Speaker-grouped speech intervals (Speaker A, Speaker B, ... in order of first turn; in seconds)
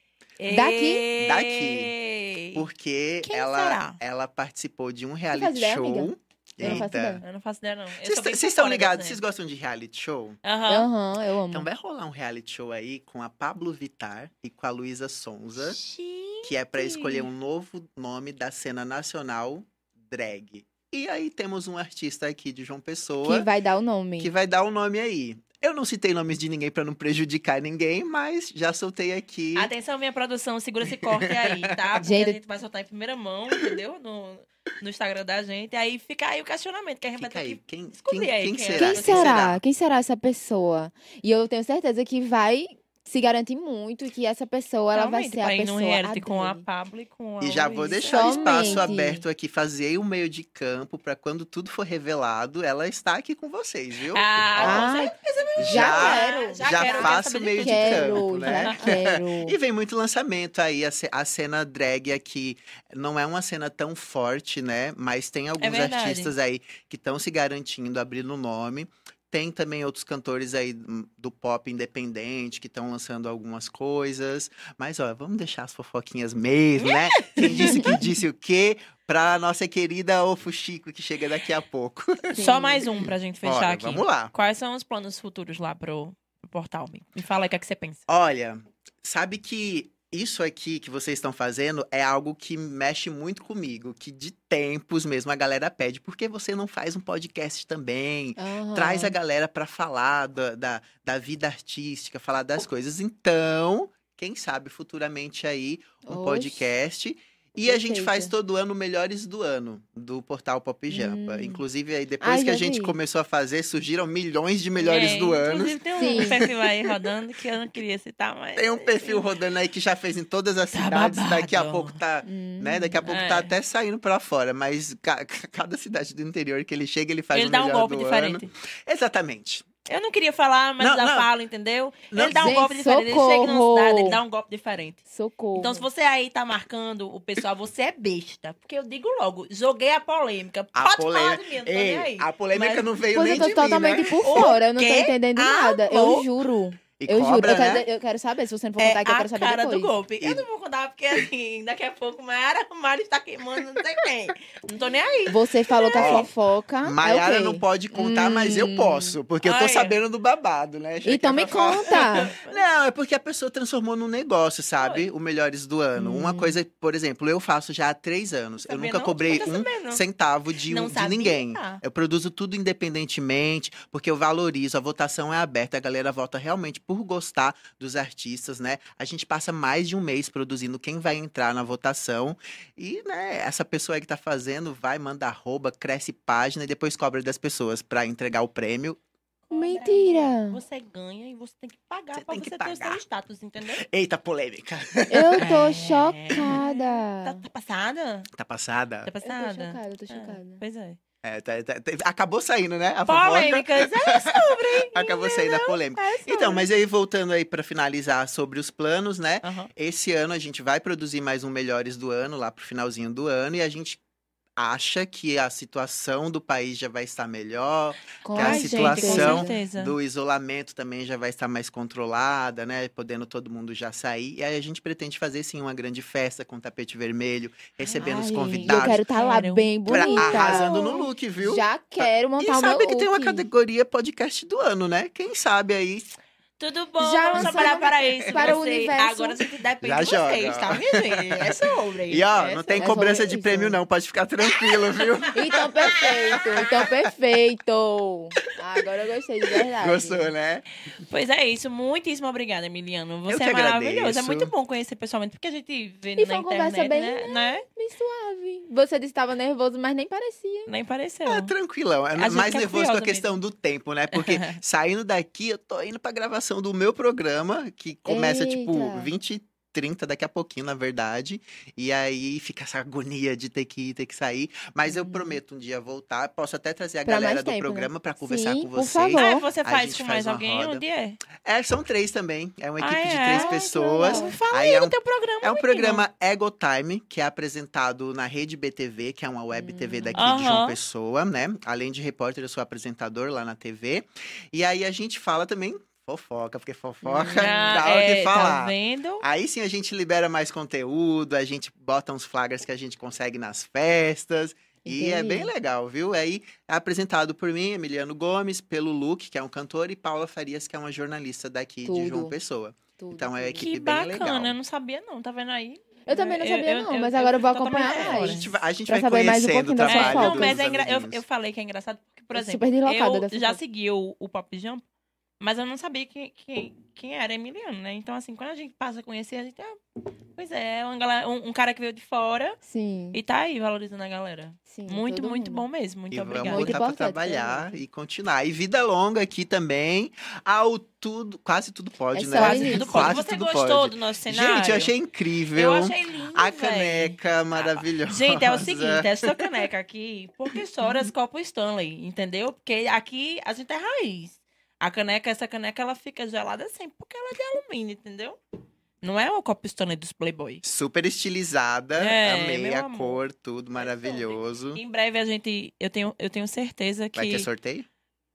Speaker A: 0.4-2.7, 3.2-4.0, 6.6-9.2, 10.4-10.9, 15.6-17.3, 29.6-39.4, 44.9-48.9, 54.1-59.0, 65.6-66.3, 76.8-78.1, 82.3-88.0, 114.8-119.3, 120.7-122.0, 123.1-123.5, 127.3-128.5, 129.9-135.0, 135.6-143.7, 144.2-146.3, 148.8-156.3, 159.4-160.0, 161.9-162.6, 164.8-165.1, 168.6-170.0, 170.7-171.8, 189.5-193.9, 195.4-198.3, 199.1-201.0, 203.1-206.7, 209.4-209.7, 218.4-220.0, 228.6-230.9, 236.6-243.0, 244.7-245.0, 251.0-257.6, 260.7-261.5, 262.2-263.3, 264.1-264.6, 279.1-281.2, 282.8-286.1, 290.1-290.8, 297.4-299.2, 313.6-318.5, 319.8-324.8, 325.4-329.8, 330.4-332.6, 333.1-336.8, 342.4-344.9, 345.5-358.4, 359.0-360.6, 362.0-363.2, 363.8-367.5
Speaker B: 0.5-1.1, 5.3-7.2, 10.7-11.7, 23.2-24.3, 32.0-32.4, 38.8-46.6, 47.9-49.2, 54.6-59.6, 77.5-78.0, 82.3-82.8, 98.4-99.2, 106.1-106.7, 107.6-108.3, 110.9-111.6, 112.2-113.0, 116.0-116.4, 122.2-123.1, 132.2-134.2, 135.1-135.9, 143.1-149.9, 155.3-159.2, 161.0-162.3, 165.9-166.6, 189.5-190.6, 195.1-197.4, 199.2-200.6, 218.2-219.6, 227.9-233.5, 237.0-239.4, 242.8-243.8, 245.3-250.3, 256.2-260.7, 268.1-269.1, 274.9-275.4, 277.1-279.5, 283.3-284.4, 289.5-290.3, 297.0-297.7, 304.9-305.5, 311.9-312.4, 313.0-313.7, 316.1-320.6, 322.3-323.6, 332.6-333.2, 334.7-335.6, 336.4-337.8, 342.1-343.2
Speaker C: 1.2-1.9, 2.5-7.2, 8.0-10.4, 11.5-15.8, 16.4-23.5, 24.2-29.7, 30.9-31.7, 37.2-39.6, 47.4-54.9, 55.6-84.3, 88.1-116.9, 118.6-129.7, 130.8-131.3, 132.1-132.7, 140.8-144.6, 147.0-147.8, 150.2-150.5, 155.9-156.3, 156.8-189.0, 192.1-193.0, 193.8-195.6, 196.3-196.6, 198.3-199.1, 201.2-214.0, 214.6-229.0, 229.9-236.1, 237.4-238.6, 239.8-246.9, 249.5-250.7, 253.3-254.5, 261.3-280.8, 281.4-314.6, 317.9-321.2, 336.1-349.5, 360.6-364.8, 367.2-367.9